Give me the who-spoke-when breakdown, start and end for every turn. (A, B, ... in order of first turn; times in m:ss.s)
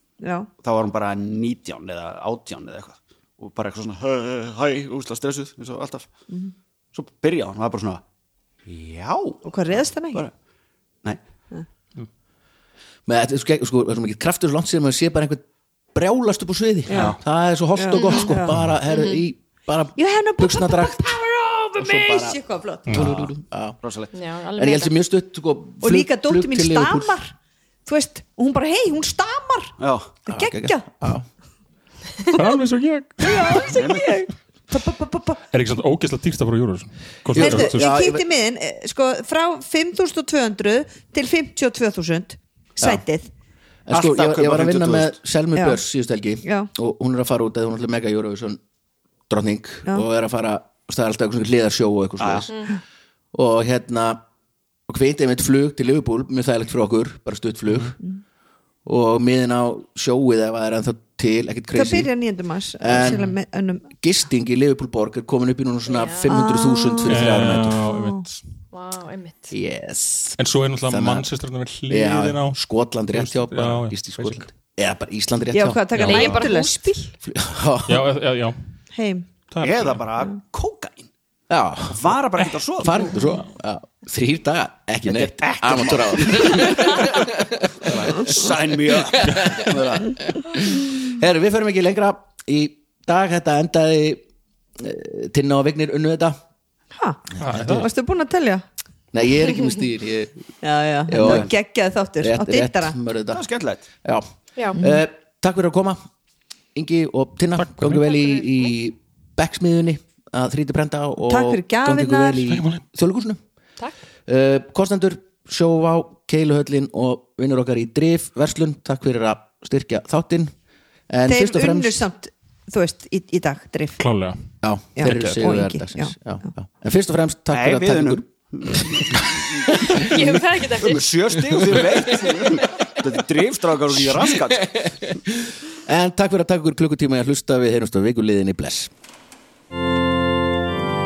0:00.2-0:00.5 A
0:00.6-0:06.1 B
0:06.9-0:08.0 B
0:08.7-0:09.4 B
0:09.4-0:10.3 A
0:13.1-0:21.2 C
0:16.9-0:17.2 A
0:16.9-0:17.2 B
0:17.7-0:19.2 A
0:20.0-0:23.1 A
0:21.8-0:23.8 C
0:22.9-0:23.3 D
0:23.8-0:24.1 B
0:24.1-0:24.9 E
0:24.6-0:27.2 C
0:25.8-0:27.3 A
0:27.8-0:30.9 A
0:29.8-0:30.1 B
0:30.3-0:31.2 C
0:32.3-0:33.8 D
0:33.2-0:35.4 A
0:33.7-0:34.2 B
0:35.5-0:37.9 D
0:37.3-0:38.2 C
0:37.3-0:43.3 A
0:43.9-0:48.6 C
0:43.9-0:45.2 B
0:45.5-0:45.8 A
0:46.4-0:46.7 A
0:49.3-0:52.7 C
0:52.2-0:52.5 B
0:53.3-0:54.2 C
0:54.9-0:58.0 C
0:58.8-1:02.1 C
1:01.7-1:03.9 A
1:02.8-1:03.3 C
1:04.0-1:07.8 C
1:05.9-1:06.3 E
1:06.2-1:08.2 A
1:07.0-1:08.5 D
1:08.7-1:09.5 E
1:09.5-1:10.4 C
1:10.4-1:14.4 D
1:10.9-1:11.2 C
1:11.9-1:16.3 C
1:15.5-1:17.1 A
1:15.9-1:16.5 D
1:16.0-1:16.7 E
1:17.2-1:18.1 C
1:17.8-1:18.5 D
1:18.9-1:19.3 A
1:19.5-1:20.0 D
1:19.6-1:21.1 B
1:21.5-1:22.2 C
1:21.9-1:23.2 B
1:22.8-1:34.2 C
1:25.1-1:27.3 B
1:27.8-1:30.3 B
1:34.8-1:36.4 C
1:37.0-1:38.6 A
1:37.4-1:37.9 D
1:37.4-1:37.9 C
1:39.1-1:40.3 C
1:40.6-1:43.0 A
1:41.0-1:41.5 C
1:41.2-1:41.5 B
1:42.2-1:43.4 C
1:43.3-1:43.8 B
1:44.0-1:46.0 C
1:44.7-1:45.0 A
1:46.7-1:53.4 C
1:47.6-1:48.0 D
1:48.1-1:48.5 E
1:51.3-1:52.4 A
1:52.4-1:52.8 D
1:54.2-2:00.5 C
2:01.1-2:02.1 C
2:01.2-2:04.0 A
2:04.0-2:04.4 D
2:04.6-2:09.2 C
2:05.0-2:06.1 A
2:05.0-2:05.3 D
2:07.5-2:15.2 B
2:09.9-2:11.1 E
2:14.5-2:18.9 C